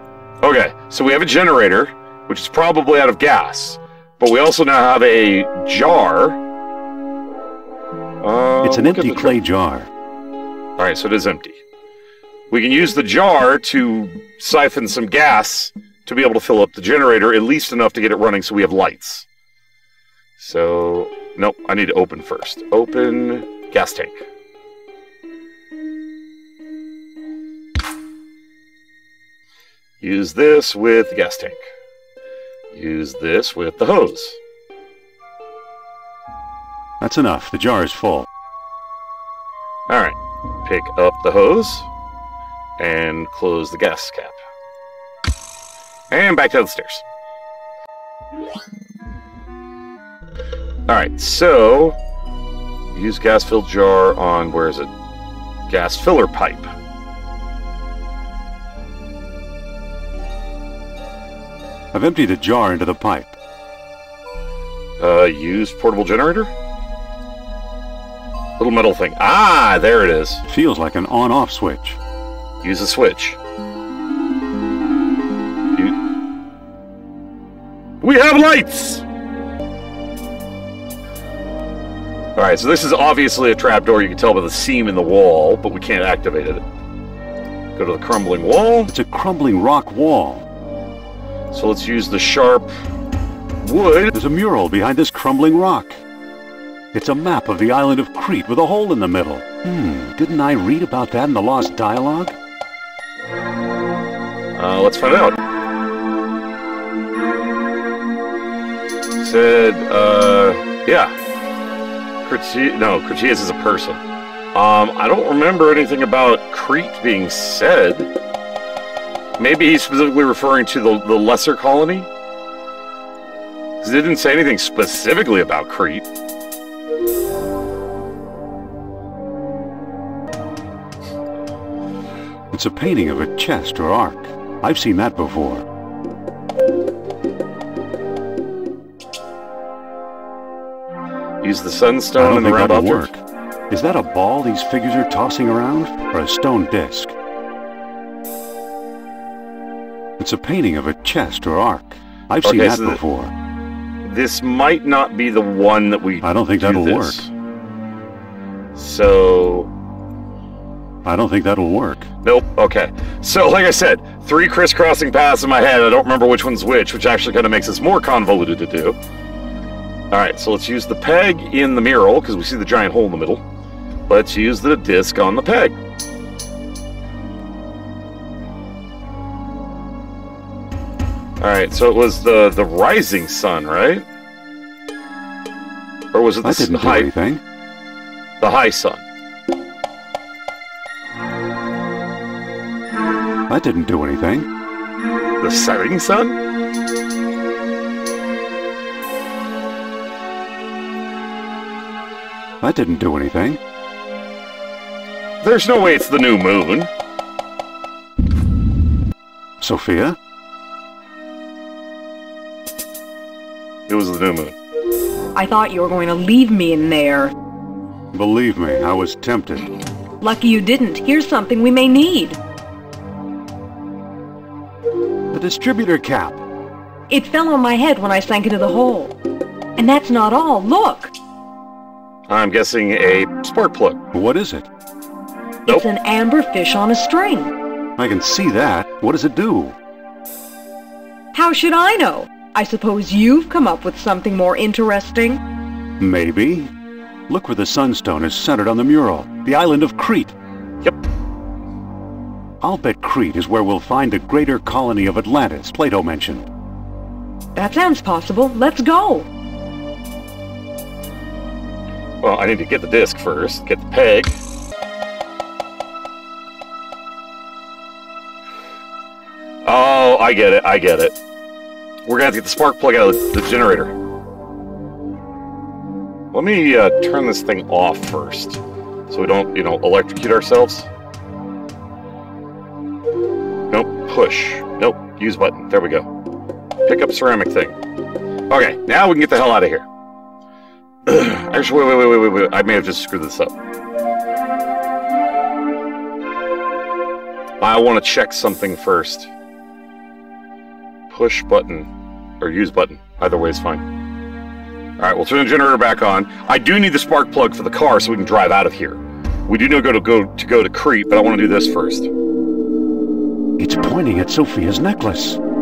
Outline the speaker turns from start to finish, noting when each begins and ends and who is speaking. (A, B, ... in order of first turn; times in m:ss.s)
0:00.4-0:06.4 A
0:08.2-0:09.4 A
0:08.6-0:09.9 B
0:10.8-0:11.6 A
0:12.5-0:19.3 A
0:20.4-0:24.2 A
0:30.0-0:31.6 A
0:32.7-0:34.4 A
0:37.0-0:38.3 B
0:39.9-0:41.9 A
0:42.8-0:44.4 A
0:46.1-0:47.0 A
0:50.9-0:52.0 A
0:52.9-0:54.9 A
0:55.7-0:56.7 A
1:01.9-1:03.3 B
1:05.0-1:06.5 A
1:08.6-1:10.4 A
1:10.5-1:12.0 B
1:12.6-1:13.4 A
1:18.0-1:19.0 A
1:22.4-1:26.6 A
1:27.8-1:28.9 A
1:28.9-1:30.4 B
1:31.5-1:32.7 A
1:33.6-1:34.2 A
1:34.1-1:36.0 B
1:36.9-1:42.4 B
1:44.6-1:45.4 A
1:49.2-1:51.1 A
1:52.2-1:54.0 A
1:54.5-1:58.1 A
1:59.4-2:02.1 A
2:03.8-2:06.1 A
2:12.5-2:15.6 B
2:21.4-2:23.1 A
2:22.2-2:27.2 B
2:30.2-2:33.3 B
2:32.4-2:33.0 A
2:34.0-2:37.3 A
2:36.2-2:37.2 B
2:38.8-2:39.7 A
2:41.0-2:42.1 B
2:42.2-2:49.0 A
2:50.1-2:53.4 A
2:54.1-2:55.8 A
3:01.4-3:04.1 A
3:06.1-3:07.1 A
3:06.4-3:07.4 B
3:08.4-3:09.0 A
3:13.5-3:14.5 B
3:15.4-3:16.4 A
3:22.6-3:23.6 B
3:25.4-3:26.9 A
3:29.6-3:30.2 B
3:33.9-3:34.6 A
3:35.4-3:37.3 C
3:38.1-3:39.7 B
3:40.2-3:42.4 C
3:45.3-3:46.4 B
3:47.1-3:49.2 C
3:49.8-3:51.1 C
3:52.3-3:54.0 A
3:54.1-3:54.7 B
3:55.7-3:57.5 C
3:58.0-3:59.8 B
4:01.3-4:05.4 C
4:06.0-4:06.7 B
4:07.3-4:10.4 B
4:12.6-4:16.5 B
4:17.6-4:19.3 C
4:22.2-4:24.4 A
4:29.6-4:31.2 A
4:32.1-4:33.9 A
4:36.3-4:40.9 A
4:43.7-4:46.1 A
4:46.9-4:47.8 A
4:48.5-4:49.9 A
4:51.1-4:53.5 A
4:57.6-4:59.3 A
5:01.1-5:01.9 A
5:02.4-5:03.8 A
5:05.0-5:12.1 A
5:13.6-5:15.4 B